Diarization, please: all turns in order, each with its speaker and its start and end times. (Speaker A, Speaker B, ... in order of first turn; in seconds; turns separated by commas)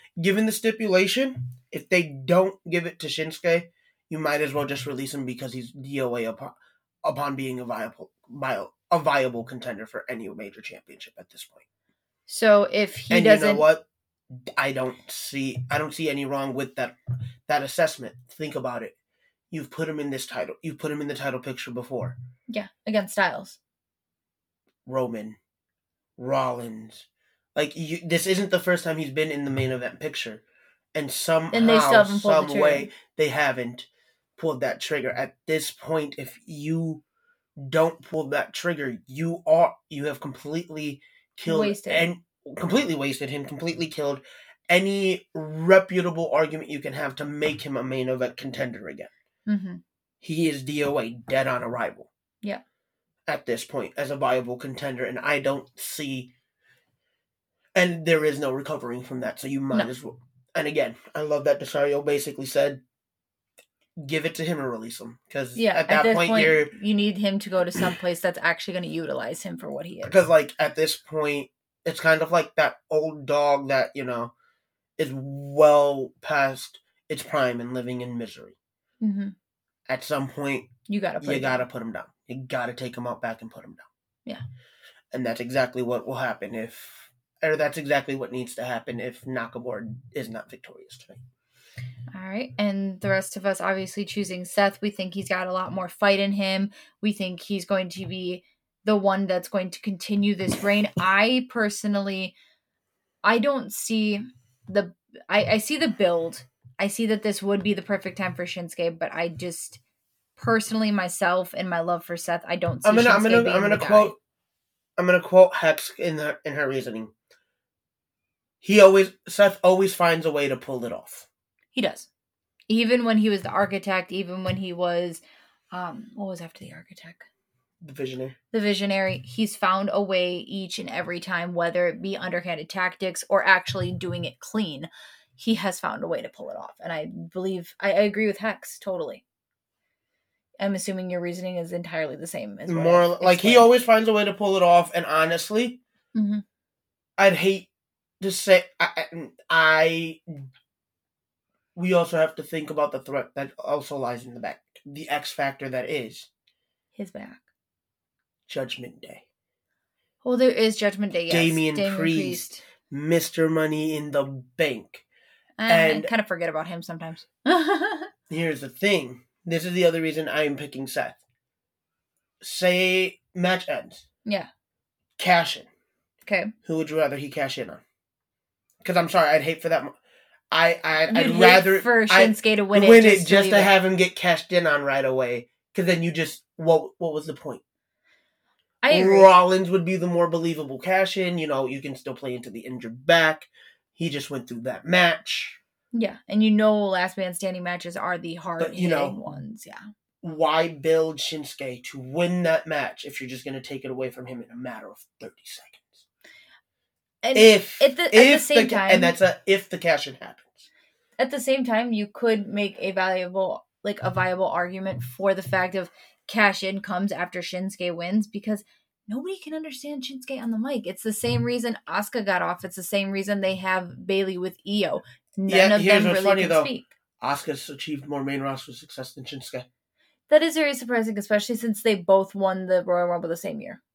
Speaker A: 0.2-11.6, Speaker B: 12.3-13.7, Speaker A: 13.1-13.8, Speaker A: 14.6-16.9, Speaker A: 17.4-18.9, Speaker A: 19.5-22.1, Speaker B: 22.5-23.6, Speaker A: 24.9-25.4, Speaker A: 26.2-30.4, Speaker A: 30.9-37.0, Speaker B: 31.5-32.9, Speaker A: 37.6-49.1, Speaker B: 41.4-42.1, Speaker B: 49.5-49.8, Speaker A: 50.2-52.1, Speaker A: 53.3-56.3, Speaker A: 57.7-62.8, Speaker A: 64.0-66.7, Speaker B: 65.5-70.2, Speaker A: 70.0-74.3, Speaker A: 75.0-78.5, Speaker B: 79.0-79.3, Speaker A: 79.9-80.7, Speaker B: 80.9-81.6, Speaker A: 81.2-83.8, Speaker A: 85.1-91.2, Speaker B: 92.1-102.3, Speaker B: 103.2-109.8, Speaker B: 110.3-114.1, Speaker A: 112.8-114.2, Speaker A: 115.0-117.1, Speaker A: 118.6-121.3, Speaker B: 121.7-122.1, Speaker B: 122.7-127.3, Speaker A: 127.8-128.3, Speaker B: 128.5-139.2, Speaker B: 140.6-143.7, Speaker A: 142.7-145.8, Speaker B: 146.1-146.4, Speaker A: 147.2-147.7, Speaker A: 148.2-150.5, Speaker A: 151.8-156.3, Speaker B: 156.9-157.4, Speaker A: 158.5-159.2, Speaker B: 160.2-162.6, Speaker A: 161.3-165.0, Speaker B: 165.6-168.1, Speaker A: 165.7-166.1, Speaker A: 168.3-171.2, Speaker A: 172.4-174.0, Speaker A: 175.2-175.7, Speaker B: 176.2-176.5, Speaker A: 176.6-177.8, Speaker A: 178.8-179.9, Speaker A: 180.5-187.6, Speaker B: 181.1-183.7, Speaker B: 188.8-189.3, Speaker A: 188.9-195.6, Speaker B: 195.9-199.8, Speaker A: 198.6-199.2, Speaker A: 200.2-206.0, Speaker B: 207.2-209.1, Speaker A: 207.3-210.7, Speaker B: 211.2-226.9, Speaker A: 225.5-229.7, Speaker B: 230.3-233.8